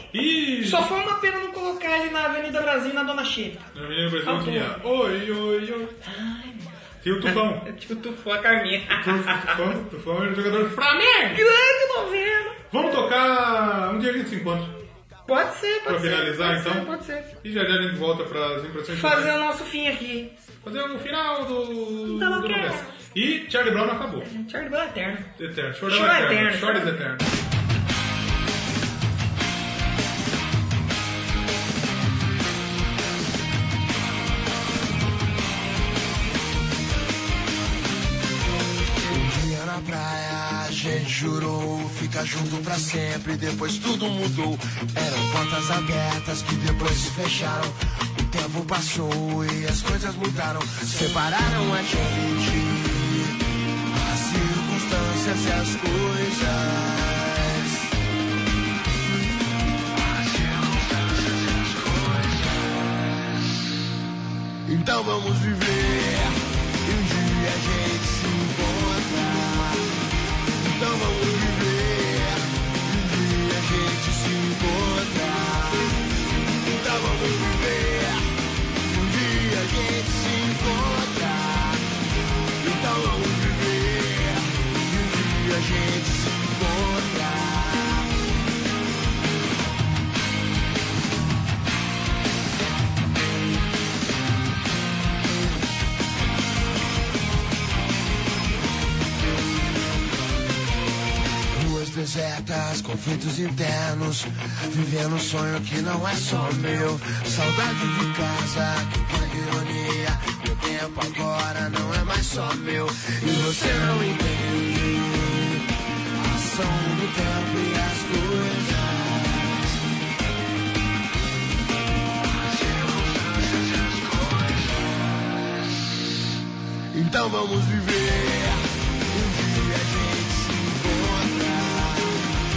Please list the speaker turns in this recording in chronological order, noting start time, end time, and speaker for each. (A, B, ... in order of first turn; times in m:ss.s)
0:00.1-0:00.9 A
0:00.6-0:03.7 B
0:03.7-0:06.0 A
0:04.2-0:04.7 B
0:06.0-0:06.7 B
0:07.0-0:07.6 A
0:07.2-0:09.7 B
0:08.9-0:11.4 A
0:11.3-0:12.6 B
0:12.7-0:14.8 A
0:15.3-0:17.3 B
0:15.9-0:19.3 A
0:18.9-0:20.3 B
0:20.6-0:24.3 A
0:22.1-0:22.9 B
0:24.2-0:27.0 B
0:25.4-0:27.3 A
0:39.1-0:53.4 C
0:53.9-0:57.9 C
1:00.0-1:03.0 C
1:04.6-1:10.0 C
1:10.6-1:16.0 C
1:16.6-1:21.9 C
1:22.6-1:28.1 C
1:41.5-1:59.8 C
2:02.4-2:05.2 C
2:06.9-2:12.3 C